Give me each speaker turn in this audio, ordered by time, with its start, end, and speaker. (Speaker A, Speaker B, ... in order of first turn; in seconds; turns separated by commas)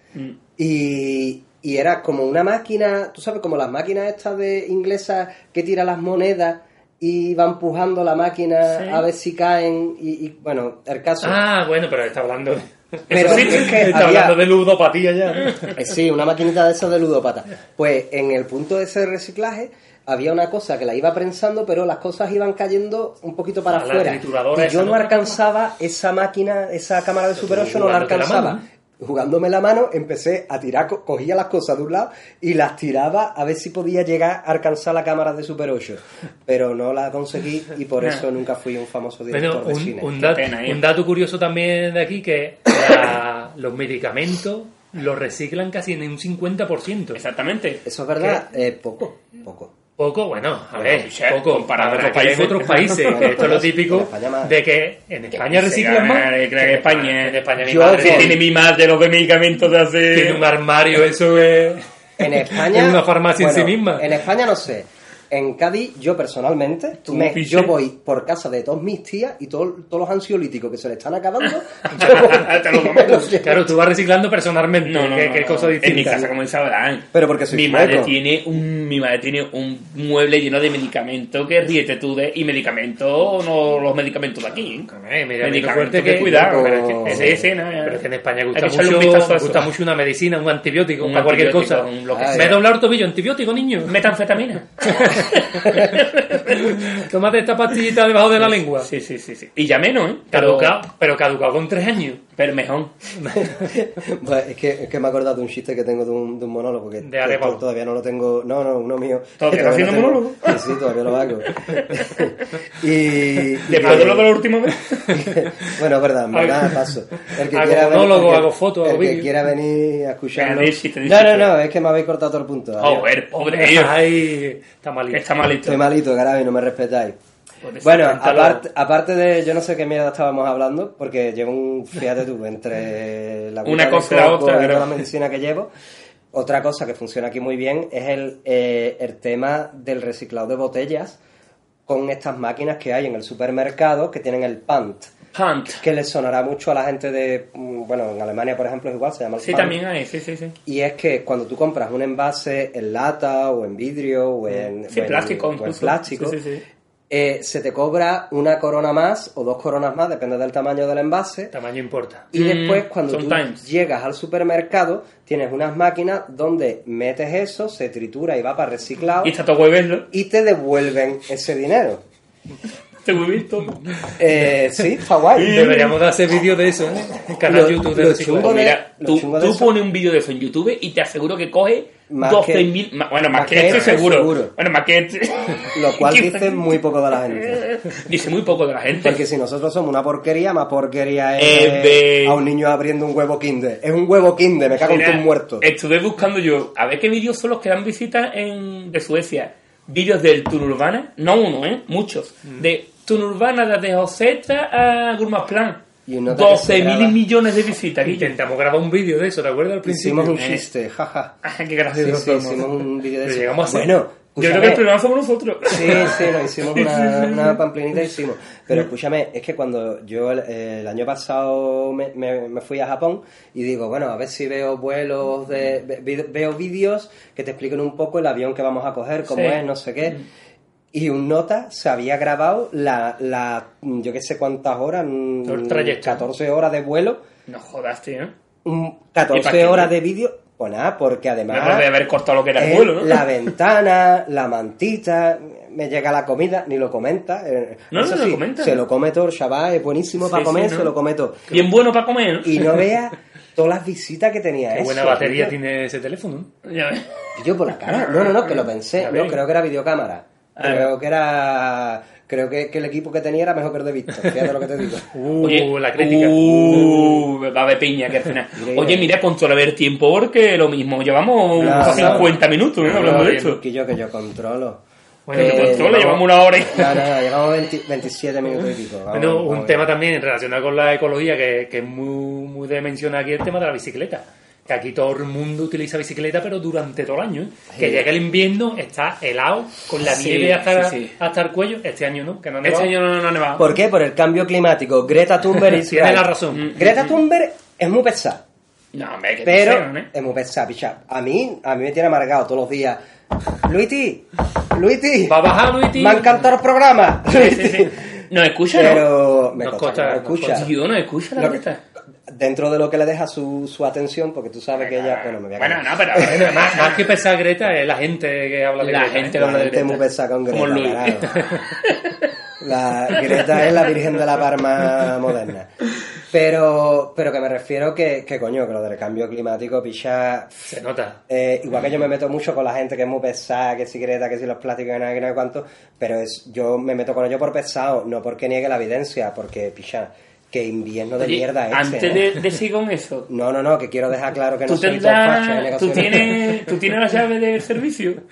Speaker A: 0.6-11.4, Speaker B: 8.8-9.0, Speaker C: 11.2-15.7, Speaker B: 13.1-13.8, Speaker A: 13.1-14.4, Speaker A: 15.7-40.1, Speaker C: 23.7-25.4, Speaker C: 27.4-28.6, Speaker C: 39.3-47.2, Speaker B: 40.2-40.8, Speaker B: 47.1-47.8, Speaker A: 47.9-49.7, Speaker C: 50.0-58.4, Speaker B: 50.8-53.5, Speaker A: 53.1-54.5, Speaker B: 55.3-60.4, Speaker A: 57.6-58.4, Speaker C: 60.1-61.8, Speaker A: 62.2-73.7, Speaker C: 62.4-64.1, Speaker B: 67.1-67.8, Speaker B: 71.9-73.4, Speaker C: 73.4-76.3, Speaker B: 74.8-84.9, Speaker A: 77.1-78.1, Speaker C: 84.9-93.9, Speaker B: 85.4-88.0, Speaker A: 86.2-87.5, Speaker B: 88.5-89.7, Speaker B: 91.0-92.6, Speaker A: 92.1-92.6, Speaker B: 93.9-96.7, Speaker C: 94.9-95.3, Speaker C: 96.5-98.9, Speaker B: 98.8-100.8, Speaker C: 100.3-102.2, Speaker B: 102.4-103.0, Speaker C: 103.2-103.5, Speaker A: 103.3-114.3, Speaker C: 107.0-107.6, Speaker B: 109.4-110.8, Speaker B: 111.5-112.0, Speaker B: 113.7-115.2, Speaker C: 113.8-114.2, Speaker A: 115.1-123.1, Speaker C: 116.3-116.7, Speaker C: 117.5-119.3, Speaker B: 120.3-121.5, Speaker B: 122.8-124.0, Speaker C: 123.5-125.2, Speaker B: 125.1-125.8, Speaker A: 125.7-127.2, Speaker B: 127.6-128.3, Speaker A: 127.8-135.7, Speaker C: 128.1-128.6, Speaker B: 133.7-135.0, Speaker A: 136.3-141.2, Speaker A: 141.9-145.2, Speaker B: 145.3-145.8, Speaker A: 145.8-149.8, Speaker B: 149.4-150.6, Speaker A: 150.7-156.4, Speaker B: 154.6-156.6, Speaker A: 157.1-161.5, Speaker C: 161.5-162.3, Speaker A: 162.3-169.3, Speaker B: 162.3-163.7, Speaker B: 169.2-170.1, Speaker A: 170.1-172.0, Speaker B: 173.0-173.8, Speaker A: 174.2-175.7, Speaker B: 175.3-176.0, Speaker C: 175.4-178.6, Speaker A: 177.5-179.7, Speaker B: 178.3-186.8, Speaker A: 182.1-182.7, Speaker A: 183.3-184.5, Speaker A: 185.7-187.7, Speaker B: 187.4-189.2, Speaker A: 189.0-195.7, Speaker B: 191.4-192.4, Speaker B: 194.8-208.3, Speaker A: 206.1-207.2, Speaker C: 208.1-210.5, Speaker A: 209.9-211.3, Speaker B: 210.3-210.7, Speaker B: 211.4-212.7, Speaker A: 211.9-214.8, Speaker C: 213.2-213.9, Speaker B: 214.4-217.6, Speaker A: 215.7-230.2, Speaker B: 229.3-229.6, Speaker A: 230.9-237.2, Speaker C: 235.5-236.2, Speaker B: 237.5-238.3, Speaker A: 238.7-241.9, Speaker B: 239.3-239.9, Speaker B: 241.5-243.3, Speaker A: 242.6-251.5, Speaker B: 247.9-248.8, Speaker B: 250.2-250.9, Speaker B: 251.5-252.8, Speaker A: 252.4-255.5, Speaker C: 254.7-256.5, Speaker B: 256.6-257.1, Speaker A: 257.4-265.1, Speaker B: 257.9-258.6, Speaker C: 259.0-259.4, Speaker B: 260.6-260.9, Speaker C: 265.1-267.2, Speaker B: 265.4-273.6, Speaker A: 268.6-269.1, Speaker A: 271.6-274.8, Speaker C: 271.6-273.6, Speaker C: 275.3-276.2, Speaker A: 275.3-279.9, Speaker B: 275.4-277.1, Speaker C: 279.1-292.9, Speaker A: 287.7-288.1, Speaker B: 290.0-291.1, Speaker B: 292.6-293.7, Speaker A: 293.6-298.4, Speaker C: 295.8-296.7, Speaker B: 296.5-297.1, Speaker B: 298.9-300.1, Speaker A: 299.4-303.0, Speaker A: 303.6-308.2, Speaker C: 305.3-306.4, Speaker C: 307.3-307.9, Speaker B: 308.3-309.1, Speaker A: 308.7-310.7, Speaker C: 309.6-310.7, Speaker B: 310.5-311.8, Speaker A: 311.4-311.6, Speaker A: 312.3-316.5, Speaker B: 314.8-317.1, Speaker C: 316.2-319.4, Speaker B: 318.8-322.3, Speaker A: 319.4-321.5, Speaker A: 322.6-325.7, Speaker B: 323.1-323.7, Speaker A: 326.3-330.7, Speaker C: 330.7-331.2, Speaker A: 331.3-342.2, Speaker B: 341.2-343.3, Speaker A: 343.3-346.4, Speaker B: 344.7-348.2